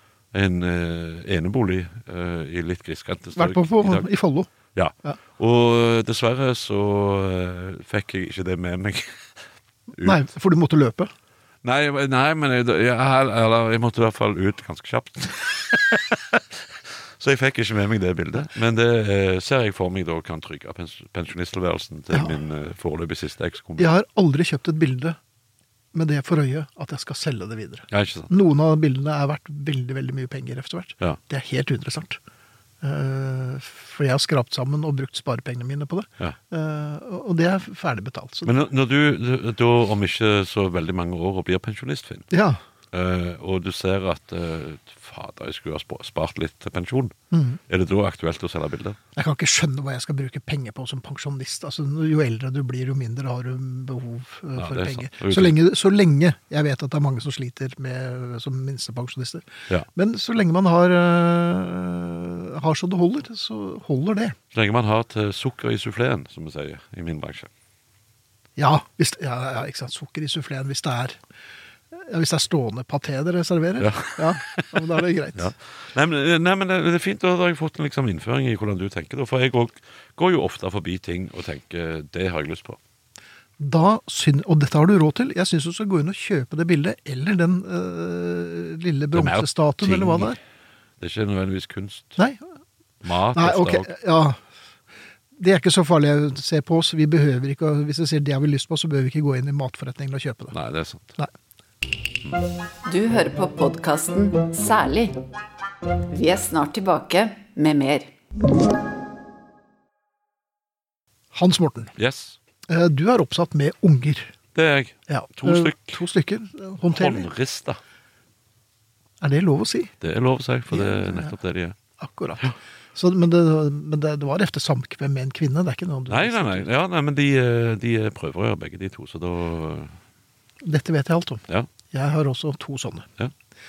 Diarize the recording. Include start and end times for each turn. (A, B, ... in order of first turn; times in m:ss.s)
0:00.3-0:04.1 A
0:03.4-0:04.5 B
0:04.8-0:09.3 A
0:10.0-0:11.1 B
0:11.6-0:23.9 A
0:23.8-0:25.2 B
0:25.9-0:32.2 B
0:27.9-0:28.3 A
0:32.8-0:38.5 B
0:38.4-0:42.3 A
0:42.3-0:42.6 B
0:42.9-0:47.1 A
0:47.3-0:47.6 B
0:47.7-0:49.0 A
0:49.2-1:04.4 B
0:54.6-0:55.6 A
1:04.5-1:07.5 A
1:08.6-1:11.2 B
1:11.9-1:15.5 B
1:13.8-1:22.8 A
1:23.6-1:30.4 B
1:29.1-1:30.4 A
1:31.0-1:32.2 A
1:32.2-1:32.4 B
1:33.0-1:33.9 A
1:33.3-1:34.4 B
1:35.4-1:40.6 B
1:40.5-1:41.2 A
1:42.8-1:45.2 C
1:46.1-1:48.1 C
1:51.3-1:51.9 B
1:52.0-1:52.4 A
1:52.7-1:54.3 B
1:54.6-1:56.0 A
1:55.1-1:57.3 B
1:56.8-1:57.8 A
1:59.2-1:59.9 B
2:00.0-2:01.8 A
2:00.7-2:01.4 B
2:02.0-2:06.7 B
2:06.1-2:10.0 A
2:10.6-2:13.1 B